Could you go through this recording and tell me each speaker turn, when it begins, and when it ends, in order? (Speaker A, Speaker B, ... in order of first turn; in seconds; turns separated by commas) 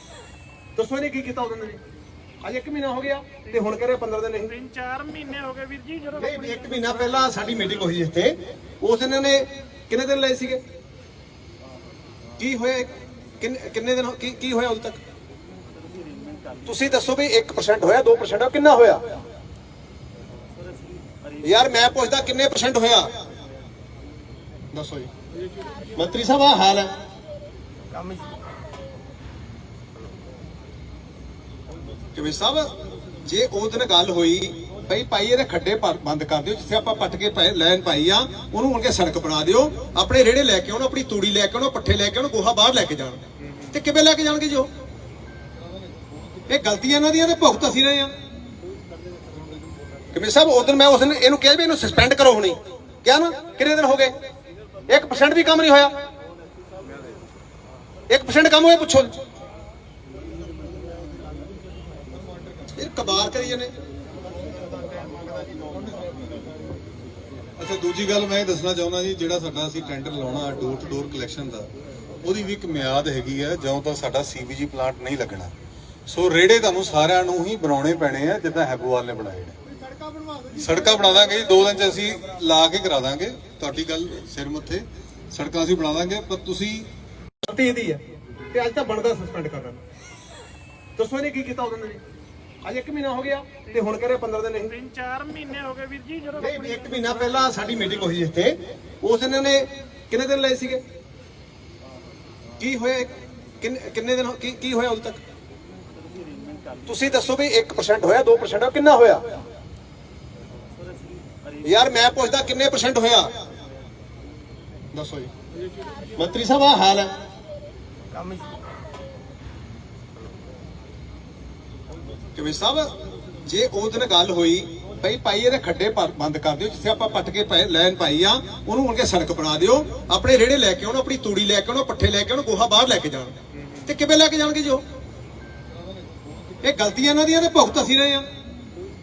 Speaker A: 0.8-1.8, Speaker A: 2.4-4.6, Speaker B: 4.6-6.2, Speaker A: 6.1-10.6, Speaker A: 12.4-15.0, Speaker A: 16.6-19.1, Speaker A: 21.4-23.1, Speaker A: 24.7-25.1, Speaker A: 25.9-26.9, Speaker A: 32.1-32.7, Speaker A: 33.2-44.7, Speaker A: 46.5-48.1, Speaker A: 50.1-54.1, Speaker A: 54.9-55.9, Speaker A: 58.1-59.2, Speaker A: 62.8-63.7, Speaker C: 67.6-71.7, Speaker C: 72.2-75.5, Speaker C: 76.1-79.6, Speaker C: 80.5-86.9, Speaker A: 87.4-89.8, Speaker A: 91.0-92.0, Speaker A: 92.6-94.8, Speaker B: 94.8-96.4, Speaker A: 96.4-100.8, Speaker A: 102.6-105.2, Speaker A: 106.9-109.3, Speaker A: 111.6-113.3, Speaker A: 114.9-115.3, Speaker A: 116.2-117.1, Speaker A: 122.3-122.9, Speaker A: 123.4-134.8, Speaker A: 136.6-138.2